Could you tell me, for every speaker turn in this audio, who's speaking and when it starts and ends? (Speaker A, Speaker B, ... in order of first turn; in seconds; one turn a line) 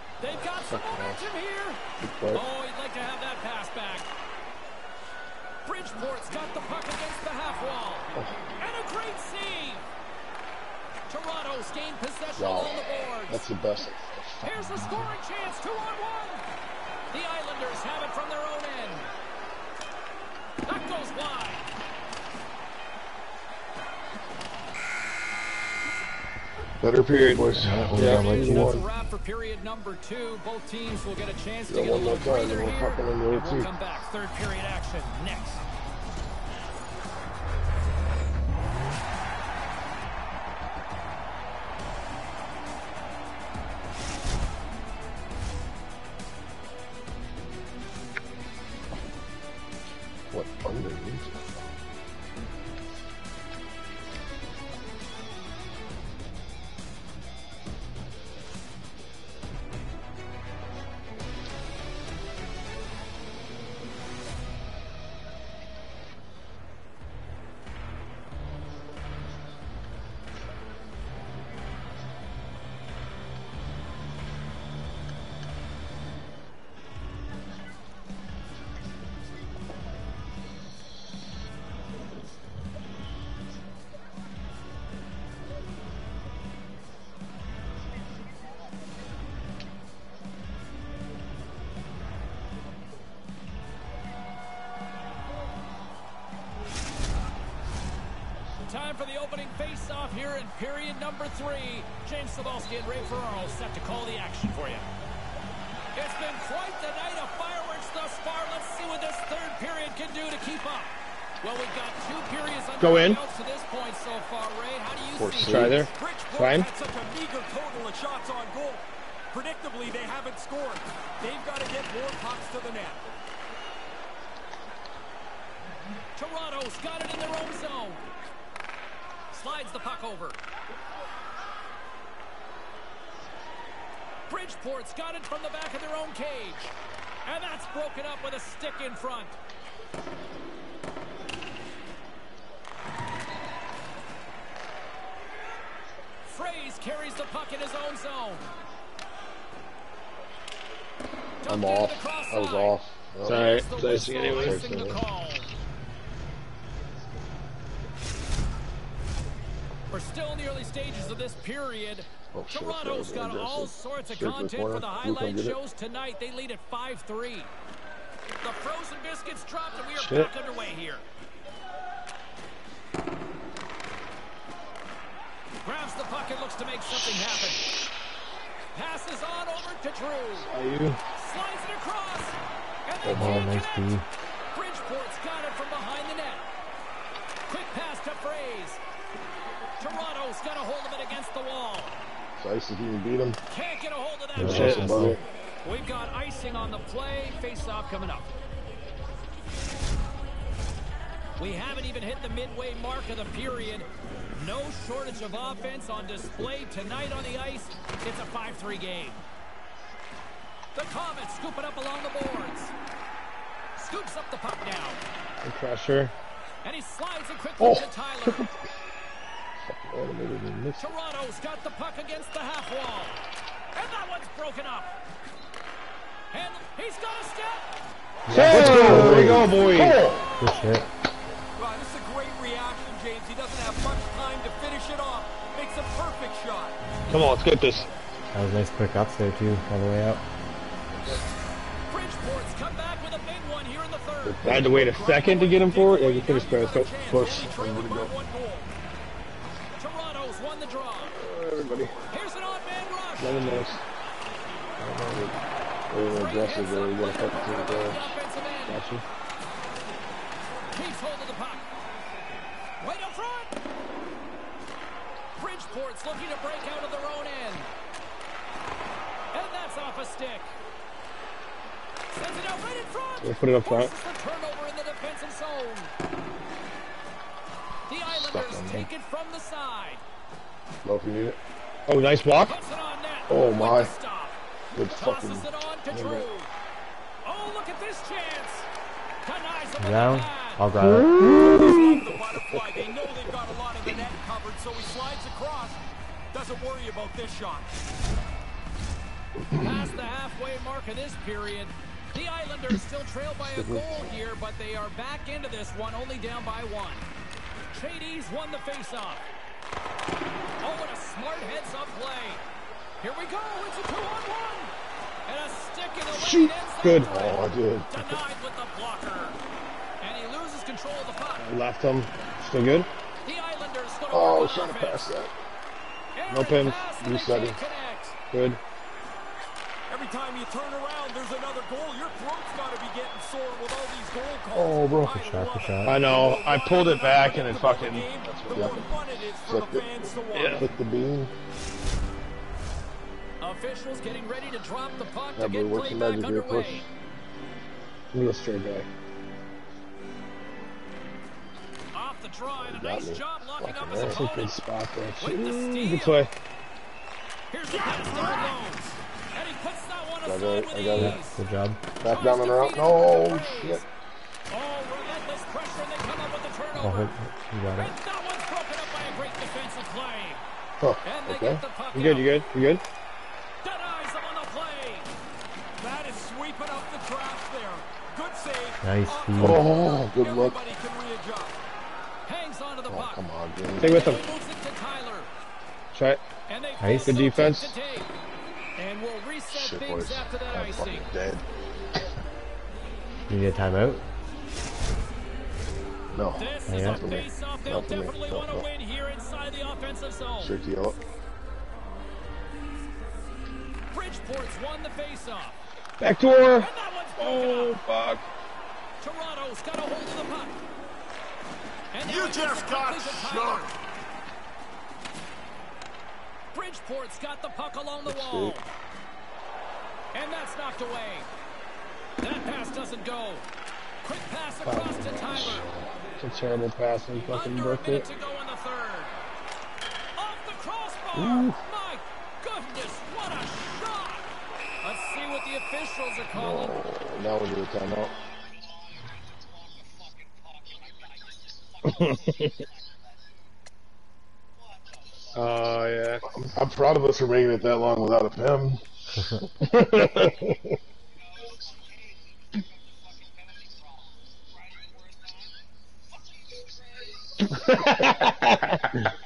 Speaker A: 0.2-4.1
Speaker B: 0.3-1.3
Speaker B: 2.0-2.4
Speaker A: 5.7-9.9
Speaker A: 11.1-13.5
Speaker B: 12.4-15.1
Speaker A: 14.4-16.5
Speaker A: 17.1-19.1
Speaker A: 20.6-21.6
Speaker B: 26.8-28.9
Speaker C: 27.1-28.7
Speaker D: 27.6-28.9
Speaker A: 28.0-35.6
Speaker B: 31.7-33.7
Speaker B: 50.3-51.5
Speaker A: 98.7-104.9
Speaker A: 106.0-115.7
Speaker C: 112.8-113.2
Speaker B: 115.1-115.9
Speaker C: 115.4-116.7
Speaker E: 115.9-123.0
Speaker A: 126.2-128.0
Speaker A: 129.3-130.4
Speaker A: 134.3-139.4
Speaker A: 146.3-148.5
Speaker A: 151.4-152.8
Speaker B: 151.4-153.6
Speaker C: 153.2-154.6
Speaker A: 153.3-155.5
Speaker B: 154.2-155.0
Speaker A: 159.9-167.5
Speaker B: 162.3-165.6
Speaker A: 168.4-171.1
Speaker C: 169.9-170.3
Speaker A: 175.6-177.7
Speaker A: 178.7-180.5
Speaker C: 180.5-181.0
Speaker A: 181.2-184.0
Speaker B: 183.0-183.5
Speaker D: 183.1-184.1
Speaker A: 184.5-186.5
Speaker A: 187.5-188.8
Speaker A: 189.8-192.0
Speaker B: 192.4-193.4
Speaker A: 193.5-195.0
Speaker D: 194.3-195.2
Speaker B: 194.4-195.2
Speaker C: 194.4-195.2
Speaker A: 195.6-198.3
Speaker A: 201.4-209.2
Speaker A: 210.8-212.7
Speaker A: 213.8-215.0
Speaker C: 215.4-216.1
Speaker A: 216.6-218.5
Speaker B: 217.6-218.5
Speaker B: 219.7-220.9
Speaker A: 220.8-223.2
Speaker A: 223.7-224.9
Speaker A: 226.3-227.7
Speaker D: 228.3-229.6
Speaker C: 228.3-230.2
Speaker B: 228.3-230.2
Speaker A: 229.6-230.7
Speaker D: 230.4-230.9
Speaker E: 231.6-236.8
Speaker C: 237.1-237.9
Speaker D: 238.3-240.2
Speaker B: 240.9-241.2
Speaker A: 241.9-244.4
Speaker B: 244.2-245.0
Speaker C: 244.4-246.9
Speaker E: 244.8-248.7
Speaker B: 247.0-248.1
Speaker A: 249.8-251.2
Speaker C: 251.2-251.9
Speaker A: 252.1-253.7
Speaker C: 253.2-253.8
Speaker B: 254.8-255.4
Speaker B: 255.9-258.2
Speaker A: 256.1-258.8
Speaker C: 258.7-259.0
Speaker A: 260.7-261.7
Speaker A: 262.8-263.5
Speaker A: 265.4-267.7
Speaker A: 269.3-270.5
Speaker A: 272.1-275.9
Speaker C: 273.2-273.9
Speaker A: 277.9-280.0
Speaker B: 278.1-278.9
Speaker B: 280.8-281.4
Speaker C: 281.9-282.6
Speaker A: 282.4-284.4
Speaker B: 283.3-283.9
Speaker B: 284.7-286.3
Speaker A: 284.9-286.5
Speaker A: 287.2-288.7
Speaker A: 289.2-290.7
Speaker D: 289.8-291.4
Speaker C: 290.8-291.8
Speaker E: 291.3-295.8
Speaker B: 291.4-292.0
Speaker E: 296.3-297.7
Speaker A: 299.5-307.1
Speaker B: 303.4-304.1
Speaker A: 307.7-309.2
Speaker A: 310.6-312.4
Speaker A: 313.0-314.7
Speaker A: 315.3-319.4
Speaker C: 316.1-317.2
Speaker B: 317.2-318.0
Speaker A: 320.0-321.5
Speaker C: 321.4-322.9
Speaker A: 323.2-325.1
Speaker B: 324.1-325.3
Speaker A: 326.2-328.2
Speaker C: 326.3-326.8
Speaker B: 327.0-327.6
Speaker C: 328.3-328.6
Speaker E: 329.9-340.6
Speaker B: 334.5-335.2
Speaker D: 335.1-336.1
Speaker C: 335.8-338.8
Speaker B: 338.5-338.9
Speaker B: 339.5-341.3
Speaker C: 340.3-340.6
Speaker A: 343.4-346.9
Speaker B: 345.4-346.9
Speaker C: 348.1-348.9
Speaker A: 351.9-354.6
Speaker B: 352.6-354.3
Speaker C: 354.1-356.3
Speaker A: 355.2-356.3
Speaker A: 357.5-361.4
Speaker E: 358.1-358.6
Speaker B: 360.2-361.2
Speaker D: 361.0-361.8
Speaker A: 362.0-363.9
Speaker B: 362.0-363.8
Speaker A: 364.5-367.2
Speaker D: 366.8-368.0
Speaker A: 367.7-370.4
Speaker B: 370.8-371.6
Speaker A: 371.0-372.5
Speaker C: 371.9-372.8
Speaker A: 373.6-375.1
Speaker E: 375.8-381.6
Speaker D: 378.8-379.7
Speaker B: 379.4-380.6
Speaker A: 382.3-383.2
Speaker B: 382.9-384.1
Speaker C: 383.8-384.2
Speaker A: 383.8-385.3
Speaker C: 385.9-386.2
Speaker A: 386.5-388.1
Speaker D: 386.8-387.2
Speaker C: 387.1-387.8
Speaker A: 388.8-391.1
Speaker B: 389.5-391.4
Speaker D: 393.3-394.1
Speaker B: 396.1-398.7
Speaker A: 396.4-400.6
Speaker D: 396.7-397.1
Speaker B: 400.4-401.0
Speaker A: 403.9-405.6
Speaker C: 406.0-408.2
Speaker A: 406.6-407.8
Speaker A: 409.0-410.6
Speaker A: 411.9-413.7
Speaker E: 412.0-413.8
Speaker A: 416.5-418.7
Speaker B: 418.1-418.6
Speaker A: 420.1-421.3
Speaker A: 422.2-423.5
Speaker A: 424.0-425.6
Speaker C: 424.7-425.1
Speaker B: 425.1-425.9
Speaker C: 426.2-428.1
Speaker A: 427.3-429.2
Speaker A: 430.2-434.3
Speaker B: 431.1-431.6
Speaker A: 434.8-436.8
Speaker B: 436.3-438.1
Speaker C: 441.9-442.5
Speaker C: 445.4-446.2
Speaker B: 446.3-448.8
Speaker C: 449.6-450.6
Speaker C: 457.5-458.9